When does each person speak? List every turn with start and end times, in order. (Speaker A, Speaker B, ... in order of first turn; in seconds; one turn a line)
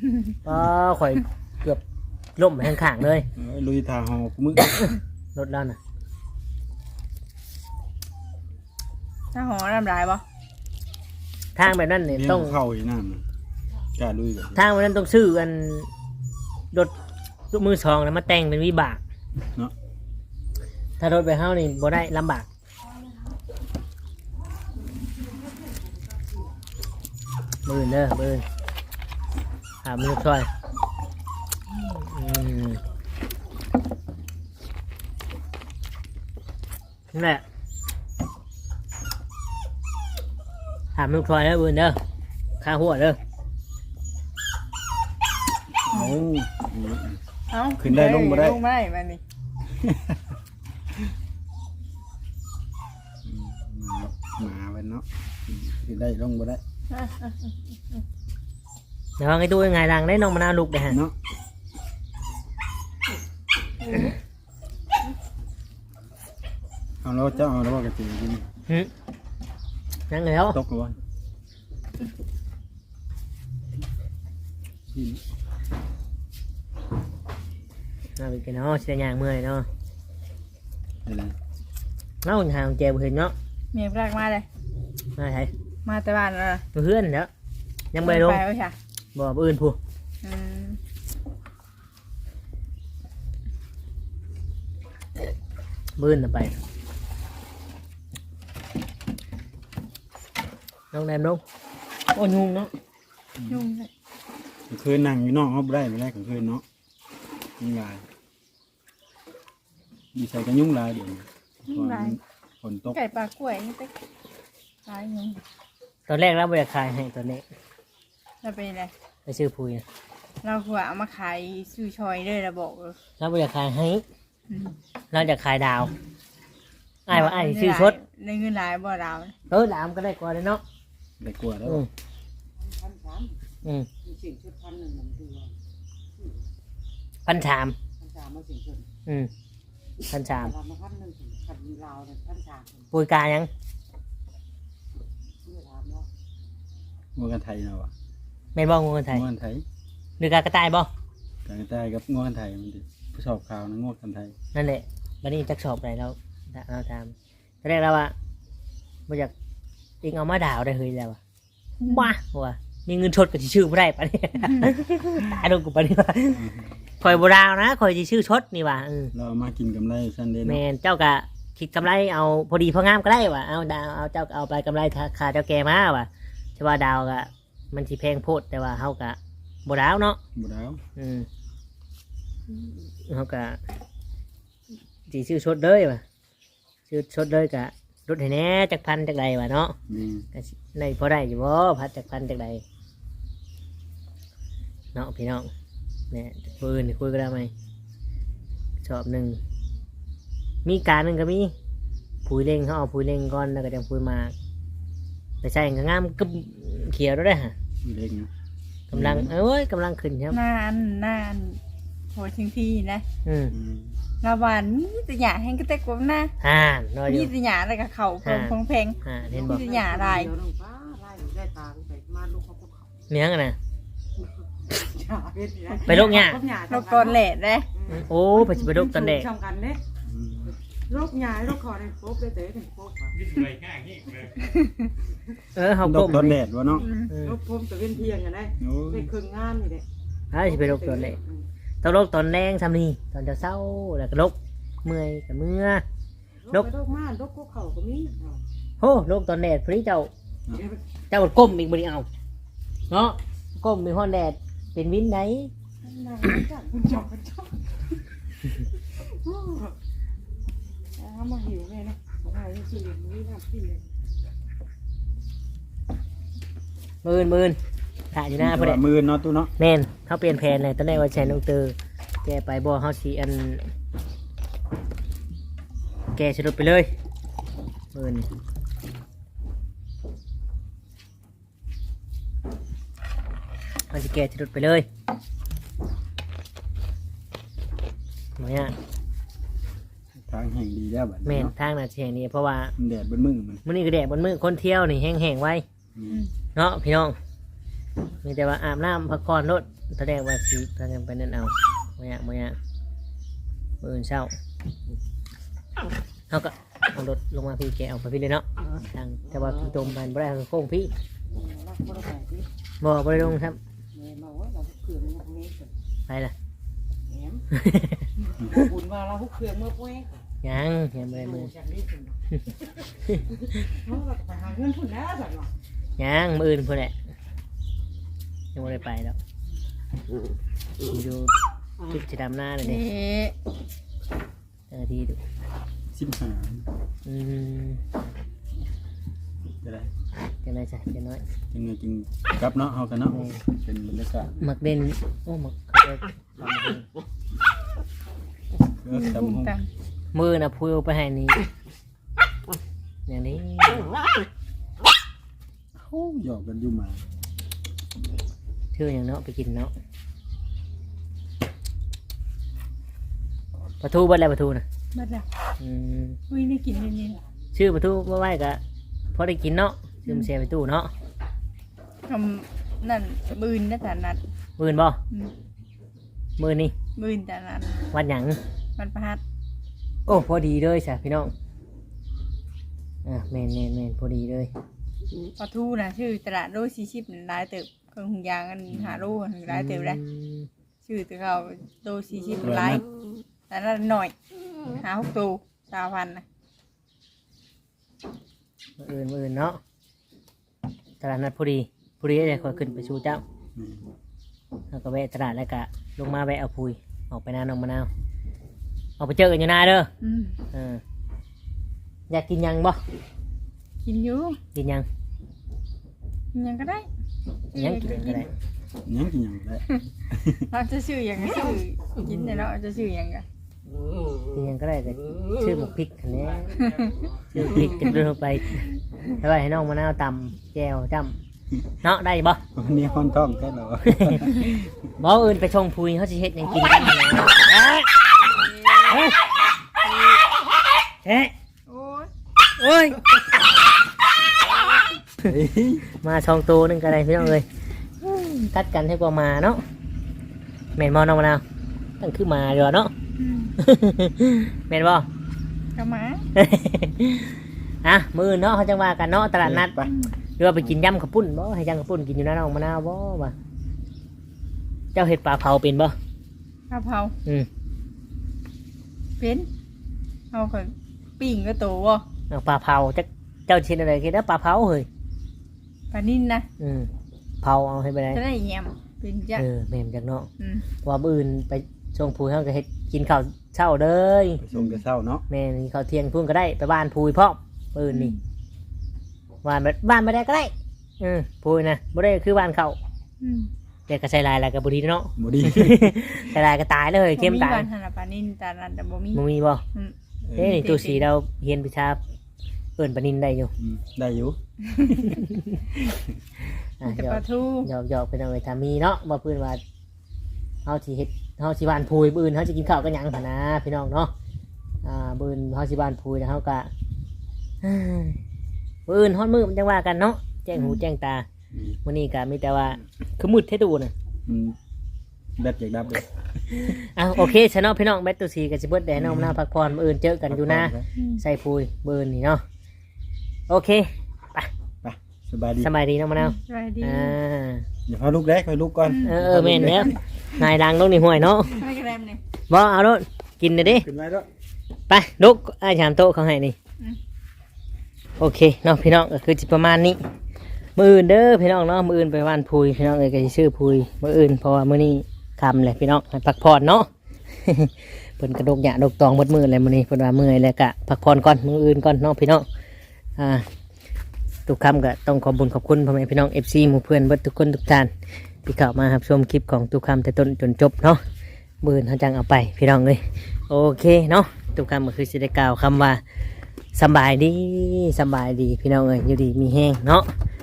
Speaker A: 0.4-1.8
Speaker A: 2.4-3.3
Speaker B: 3.4-4.7
Speaker A: 4.7-5.8
Speaker C: 9.3-10.2
Speaker A: 11.6-12.6
Speaker B: 12.1-13.2
Speaker B: 13.9-14.6
Speaker A: 14.6-15.9
Speaker A: 17.5-19.0
Speaker A: 21.0-22.5
Speaker A: 27.6-28.4
Speaker A: 29.8-30.5
Speaker A: 31.8-32.8
Speaker A: 37.1-37.4
Speaker A: 41.0-42.0
Speaker A: 42.6-43.2
Speaker B: 45.9-47.2
Speaker C: 47.5-49.2
Speaker B: 47.8-48.6
Speaker B: 49.8-50.2
Speaker B: 53.2-56.6
Speaker C: 56.9-57.5
Speaker A: 59.2-61.0
Speaker B: 60.9-61.1
Speaker B: 67.0-68.5
Speaker A: 70.1-70.6
Speaker B: 70.5-71.0
Speaker B: 74.9-75.2
Speaker A: 78.2-79.7
Speaker B: 81.0-81.3
Speaker A: 82.2-83.3
Speaker C: 83.7-84.5
Speaker A: 85.2-85.5
Speaker C: 85.8-86.6
Speaker A: 86.7-87.3
Speaker A: 87.9-88.4
Speaker C: 88.0-88.8
Speaker A: 89.1-89.8
Speaker C: 90.2-90.8
Speaker A: 96.0-96.6
Speaker A: 100.9-101.4
Speaker A: 102.1-102.7
Speaker B: 103.4-103.7
Speaker C: 103.5-103.9
Speaker B: 104.7-106.6
Speaker B: 107.6-108.0
Speaker B: 110.1-113.0
Speaker C: 111.7-112.2
Speaker C: 112.9-113.9
Speaker C: 114.9-115.4
Speaker A: 116.1-117.4
Speaker C: 118.4-118.9
Speaker A: 119.2-119.8
Speaker C: 120.4-123.0
Speaker A: 123.2-124.0
Speaker C: 124.5-124.8
Speaker A: 125.1-125.9
Speaker A: 127.1-128.0
Speaker C: 127.1-129.3
Speaker A: 129.5-130.6
Speaker B: 131.2-131.8
Speaker D: 132.6-133.4
Speaker D: 134.0-135.6
Speaker A: 137.2-137.8
Speaker D: 138.0-138.9
Speaker A: 140.1-140.5
Speaker D: 140.2-142.9
Speaker A: 142.9-143.5
Speaker D: 145.4-146.1
Speaker B: 147.1-147.9
Speaker A: 148.5-149.2
Speaker B: 149.1-149.6
Speaker A: 150.2-150.9
Speaker B: 151.4-154.3
Speaker A: 154.5-158.1
Speaker A: 159.1-159.3
Speaker A: 160.0-161.2
Speaker A: 161.8-166.4
Speaker B: 166.3-166.7
Speaker A: 167.0-169.1
Speaker B: 169.1-170.6
Speaker A: 170.4-180.2
Speaker B: 180.3-180.8
Speaker A: 181.0-181.3
Speaker A: 182.5-183.6
Speaker A: 185.1-186.0
Speaker A: 186.9-189.8
Speaker B: 189.9-190.2
Speaker A: 190.3-192.6
Speaker A: 194.9-195.5
Speaker A: 196.1-197.5
Speaker A: 198.8-199.4
Speaker A: 200.6-201.5
Speaker A: 202.2-204.3
Speaker A: 205.4-207.5
Speaker B: 207.8-208.3
Speaker A: 208.9-210.4
Speaker B: 208.9-209.3
Speaker C: 210.3-211.6
Speaker C: 212.1-213.0
Speaker A: 213.2-213.5
Speaker B: 213.5-213.9
Speaker C: 214.2-216.3
Speaker A: 216.4-217.3
Speaker C: 217.1-220.3
Speaker A: 218.2-219.6
Speaker D: 219.2-222.9
Speaker A: 223.1-223.6
Speaker D: 224.2-227.2
Speaker C: 225.7-227.7
Speaker A: 225.9-226.4
Speaker D: 227.7-229.8
Speaker A: 227.9-229.3
Speaker B: 230.0-230.5
Speaker D: 230.9-233.4
Speaker C: 234.4-234.9
Speaker A: 235.5-236.4
Speaker B: 235.8-236.9
Speaker C: 236.8-237.1
Speaker A: 237.1-237.3
Speaker D: 237.1-239.8
Speaker B: 237.9-239.1
Speaker A: 240.3-241.2
Speaker D: 240.4-241.4
Speaker A: 241.8-245.8
Speaker D: 246.4-248.4
Speaker A: 248.8-250.1
Speaker A: 251.1-252.1
Speaker A: 252.9-255.5
Speaker D: 255.8-257.7
Speaker D: 259.0-259.8
Speaker D: 261.0-263.9
Speaker A: 267.0-267.6
Speaker A: 268.1-268.8
Speaker B: 268.4-269.5
Speaker A: 269.6-273.7
Speaker B: 271.0-271.3
Speaker A: 276.1-276.9
Speaker A: 277.9-278.3
Speaker A: 283.9-284.9
Speaker A: 288.4-288.8
Speaker B: 290.1-291.5
Speaker A: 291.2-292.7
Speaker B: 292.8-293.6
Speaker A: 293.6-295.6
Speaker B: 295.9-296.2
Speaker A: 296.6-297.1
Speaker A: 298.2-302.6
Speaker A: 303.8-304.3
Speaker A: 306.3-310.9
Speaker D: 311.3-312.5
Speaker A: 312.8-313.6
Speaker D: 313.9-315.7
Speaker A: 316.1-316.3
Speaker D: 317.1-317.5
Speaker A: 317.5-318.1
Speaker D: 318.1-320.2
Speaker A: 320.4-321.5
Speaker D: 321.1-322.2
Speaker D: 323.3-325.5
Speaker A: 326.0-326.9
Speaker A: 328.5-329.2
Speaker A: 330.8-331.3
Speaker A: 331.9-332.8
Speaker C: 332.6-333.3
Speaker A: 334.7-335.2
Speaker B: 335.9-336.6
Speaker A: 337.1-337.8
Speaker B: 339.6-339.9
Speaker A: 340.4-341.2
Speaker B: 341.5-344.3
Speaker A: 343.1-343.4
Speaker A: 344.4-346.9
Speaker B: 348.8-349.5
Speaker C: 348.9-349.7
Speaker A: 350.1-351.4
Speaker A: 353.1-353.9
Speaker B: 355.7-357.0
Speaker A: 358.7-359.7
Speaker A: 363.8-364.6
Speaker C: 364.9-365.2
Speaker A: 365.6-366.2
Speaker C: 366.3-367.2
Speaker A: 367.5-368.6
Speaker A: 369.1-370.9
Speaker C: 372.1-374.2
Speaker A: 374.6-375.0
Speaker A: 376.4-376.7
Speaker C: 376.9-377.8
Speaker A: 377.9-378.4
Speaker C: 378.8-379.2
Speaker A: 380.1-381.3
Speaker A: 383.0-384.5
Speaker C: 385.4-390.0
Speaker A: 389.5-390.5
Speaker C: 390.8-392.9
Speaker B: 392.4-392.8
Speaker C: 393.5-394.1
Speaker C: 394.8-396.2
Speaker A: 398.8-399.6
Speaker A: 401.0-403.2
Speaker B: 403.5-403.8
Speaker A: 404.7-407.9
Speaker A: 409.0-409.9
Speaker C: 410.0-410.4
Speaker A: 410.5-410.8
Speaker A: 412.1-412.8
Speaker C: 413.8-414.4
Speaker A: 414.5-414.9
Speaker C: 416.3-416.9
Speaker C: 417.5-418.3
Speaker A: 417.6-418.3
Speaker B: 418.8-420.4
Speaker C: 420.5-423.2
Speaker A: 424.3-426.7
Speaker C: 426.6-426.9
Speaker A: 427.3-428.7
Speaker B: 427.3-427.8
Speaker A: 429.2-431.1
Speaker A: 431.8-432.4
Speaker B: 432.5-434.6
Speaker A: 433.9-434.4
Speaker A: 435.0-437.9
Speaker A: 438.9-439.1
Speaker A: 441.0-441.3
Speaker C: 441.7-442.1
Speaker A: 442.6-443.0
Speaker B: 445.2-445.8
Speaker A: 446.0-447.5
Speaker A: 448.0-449.6
Speaker A: 450.8-451.4
Speaker A: 452.0-452.9
Speaker C: 453.2-453.5
Speaker A: 453.6-455.1
Speaker C: 455.8-456.2
Speaker A: 456.3-459.7
Speaker B: 459.4-459.9
Speaker C: 459.9-460.1
Speaker A: 460.4-463.3
Speaker A: 464.9-465.9
Speaker C: 466.7-467.1
Speaker C: 469.2-469.5
Speaker C: 470.3-472.0
Speaker A: 472.3-474.9
Speaker C: 475.9-476.5
Speaker A: 476.6-476.9
Speaker A: 477.4-478.2
Speaker C: 478.1-479.4
Speaker A: 479.4-480.3
Speaker C: 480.4-480.6
Speaker A: 480.8-484.4
Speaker B: 484.4-485.2
Speaker C: 484.5-484.8
Speaker A: 485.3-488.1
Speaker C: 487.9-488.2
Speaker A: 489.4-492.8
Speaker C: 493.2-493.5
Speaker A: 493.9-497.7
Speaker B: 495.2-496.0
Speaker C: 497.2-499.2
Speaker A: 499.1-499.6
Speaker C: 499.7-501.1
Speaker B: 500.3-500.6
Speaker A: 500.4-502.0
Speaker A: 502.8-503.5
Speaker B: 503.6-504.4
Speaker C: 504.7-505.1
Speaker A: 505.1-505.6
Speaker A: 506.8-509.6
Speaker C: 506.8-507.7
Speaker A: 510.6-514.1
Speaker A: 514.8-516.7
Speaker A: 517.6-518.2
Speaker A: 518.9-521.2
Speaker C: 520.5-520.8
Speaker B: 521.5-521.8
Speaker A: 521.8-523.9
Speaker B: 524.2-524.5
Speaker B: 525.4-526.7
Speaker A: 526.6-532.4
Speaker B: 528.9-529.4
Speaker B: 530.3-530.9
Speaker A: 533.5-534.5
Speaker B: 534.8-535.7
Speaker A: 535.6-537.6
Speaker C: 536.2-537.1
Speaker B: 537.9-540.0
Speaker C: 538.9-540.0
Speaker A: 539.0-541.6
Speaker C: 541.5-542.2
Speaker A: 542.5-543.9
Speaker B: 543.6-544.3
Speaker A: 544.9-546.5
Speaker A: 548.2-550.0
Speaker A: 550.8-562.4
Speaker A: 563.2-563.5
Speaker A: 564.5-567.9
Speaker A: 568.4-571.0
Speaker A: 571.6-576.0
Speaker A: 576.7-580.1